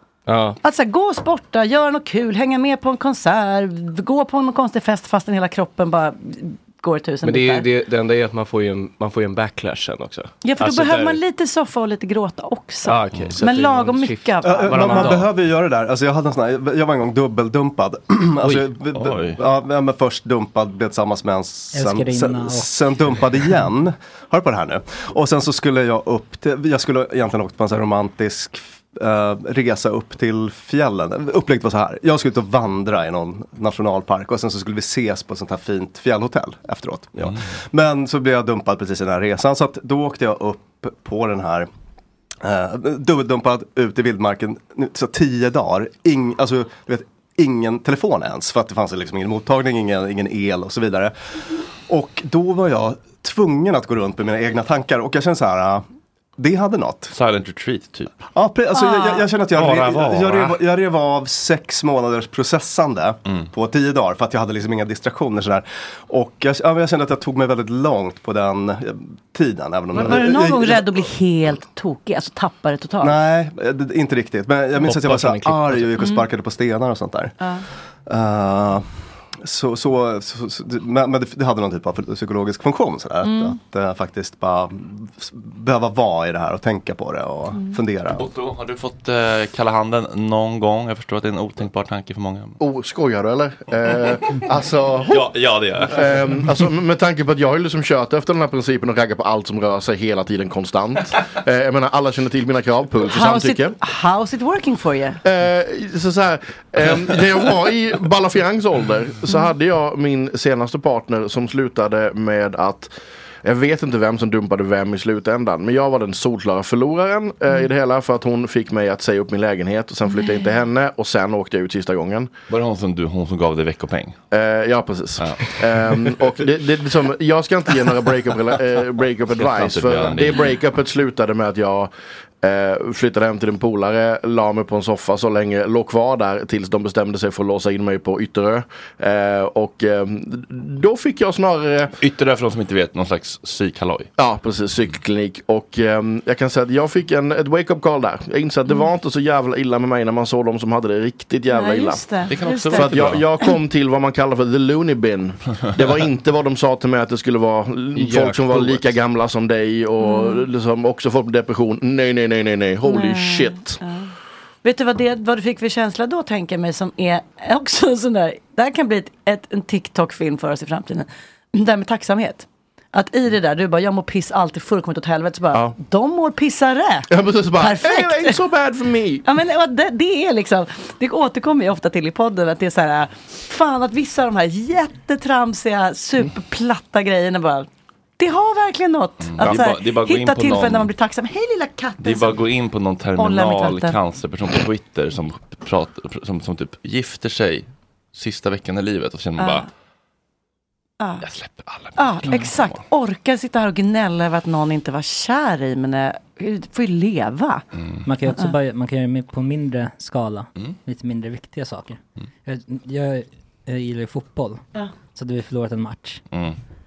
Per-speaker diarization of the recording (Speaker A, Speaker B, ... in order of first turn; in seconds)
Speaker A: 0.2-0.6, 7.2-11.2, 12.8-15.3, 74.8-76.0, 157.9-158.8
Speaker B: 0.6-7.7, 10.4-15.2, 58.8-59.3, 70.0-73.2, 83.2-83.5, 103.0-105.2, 120.2-120.5, 151.5-153.5, 160.0-160.4, 162.8-164.1, 164.6-178.4, 179.2-187.7, 188.2-192.4, 193.2-193.9, 199.4-199.6, 201.0-201.2, 202.0-207.6
Speaker C: 14.4-41.7, 42.4-51.1, 51.9-55.8, 56.4-57.1, 58.3-71.0, 73.0-77.3, 78.0-88.2
Speaker D: 18.9-19.4, 57.1-58.3, 59.5-60.6, 88.1-92.6, 95.1-96.5, 122.5-124.2, 125.2-125.4, 129.4-130.4, 142.0-144.1, 152.3-153.2, 189.2-190.9, 192.0-199.7, 201.2-202.8, 207.8-208.0, 216.3-216.6
Speaker E: 21.7-22.7, 208.1-214.6, 215.1-216.2
Speaker F: 92.6-95.3, 95.9-103.8, 105.2-112.9, 113.4-122.3, 124.3-141.9, 144.2-152.0, 152.7-163.8, 177.1-179.2